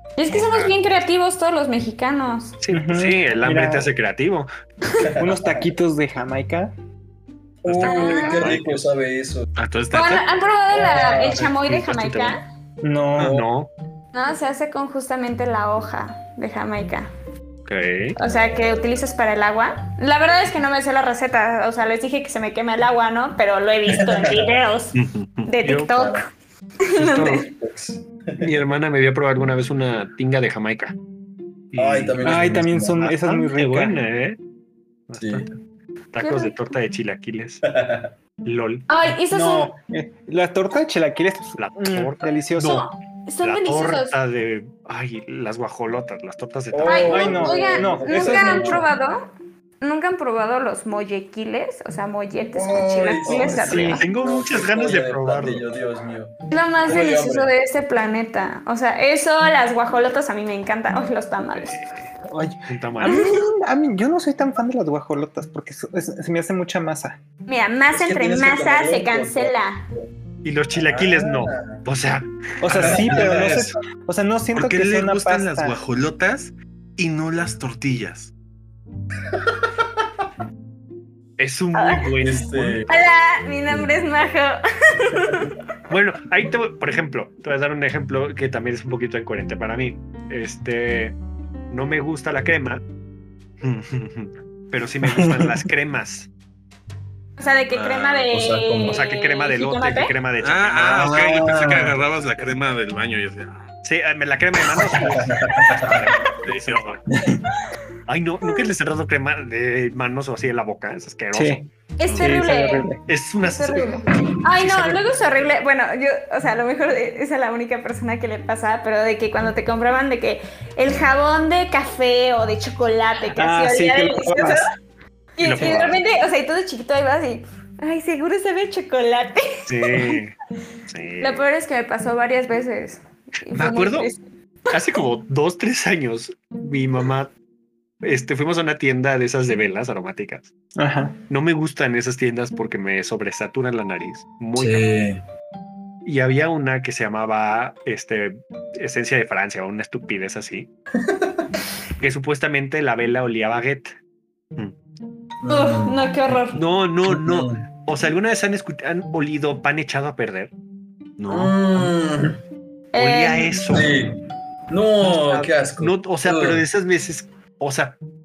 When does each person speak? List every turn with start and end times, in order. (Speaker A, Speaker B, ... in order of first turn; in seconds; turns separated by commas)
Speaker A: 0.2-2.6, Speaker B: 0.3-0.7, Speaker B: 2.6-4.5, Speaker C: 2.7-3.9, Speaker D: 5.0-5.7, Speaker C: 5.2-6.7, Speaker D: 7.6-9.5, Speaker B: 7.7-8.8, Speaker A: 7.8-8.5, Speaker E: 9.6-10.3, Speaker A: 9.9-12.4, Speaker D: 10.7-11.9, Speaker B: 11.7-12.3, Speaker C: 12.8-13.4, Speaker B: 13.2-13.7, Speaker A: 14.1-17.1, Speaker B: 17.7-18.2, Speaker A: 18.2-26.3, Speaker D: 23.9-24.5, Speaker B: 25.0-25.9, Speaker D: 25.9-26.2, Speaker A: 26.8-27.5, Speaker B: 26.9-27.5, Speaker D: 27.4-28.5, Speaker B: 28.4-30.9, Speaker B: 31.7-32.2, Speaker D: 31.7-33.1, Speaker C: 32.2-34.0, Speaker B: 33.0-34.4, Speaker B: 35.1-35.5, Speaker D: 35.2-35.5, Speaker B: 36.1-37.6, Speaker A: 36.2-36.5, Speaker D: 37.6-38.1, Speaker B: 38.5-38.9, Speaker A: 38.9-39.7, Speaker C: 39.3-42.8, Speaker B: 41.6-42.9, Speaker A: 42.6-44.1, Speaker B: 43.4-47.3, Speaker D: 46.7-48.9, Speaker A: 46.8-49.3, Speaker C: 47.0-48.9, Speaker A: 49.8-54.0, Speaker D: 52.5-56.3, Speaker C: 53.3-54.0, Speaker B: 53.6-55.6, Speaker A: 56.5-61.9, Speaker D: 56.8-57.5, Speaker B: 61.5-62.0, Speaker C: 62.3-67.2, Speaker B: 62.7-63.3, Speaker A: 63.0-63.4, Speaker A: 67.5-69.8, Speaker D: 67.9-70.1, Speaker B: 70.4-73.6, Speaker D: 70.8-71.8, Speaker C: 72.6-75.8, Speaker D: 72.7-73.5, Speaker E: 72.7-73.7, Speaker E: 74.5-78.3, Speaker B: 81.4-82.9, Speaker A: 81.7-82.1, Speaker D: 82.2-82.9, Speaker A: 82.9-85.5, Speaker B: 85.9-91.2, Speaker B: 91.7-92.8, Speaker E: 93.6-94.3, Speaker B: 94.7-96.3, Speaker C: 95.1-95.5, Speaker A: 97.4-100.1, Speaker E: 97.7-98.2, Speaker D: 98.3-99.0, Speaker B: 98.9-101.5, Speaker E: 100.4-103.6, Speaker D: 101.0-102.0, Speaker B: 103.8-107.0, Speaker D: 105.2-106.0, Speaker E: 105.5-107.0, Speaker C: 107.1-107.5, Speaker B: 108.1-111.6, Speaker A: 108.5-108.7, Speaker C: 111.3-113.0, Speaker A: 112.0-112.9, Speaker B: 113.0-114.0, Speaker A: 113.5-124.7, Speaker B: 114.5-115.1, Speaker C: 123.3-124.7, Speaker A: 125.4-130.2, Speaker B: 125.4-126.0, Speaker C: 125.6-125.9, Speaker B: 129.7-130.3, Speaker B: 130.9-131.4, Speaker A: 131.2-134.2, Speaker B: 133.5-134.1, Speaker B: 134.7-137.3, Speaker B: 138.0-140.5, Speaker C: 140.8-141.2, Speaker B: 141.3-144.9, Speaker D: 144.6-145.2, Speaker B: 146.1-150.7, Speaker B: 152.0-153.9, Speaker D: 155.4-156.0, Speaker A: 155.5-156.6, Speaker B: 156.5-160.5, Speaker D: 157.1-157.6, Speaker B: 161.2-161.9, Speaker D: 161.3-162.4, Speaker A: 162.9-163.7, Speaker B: 162.9-164.1, Speaker D: 163.7-166.6, Speaker B: 165.0-168.0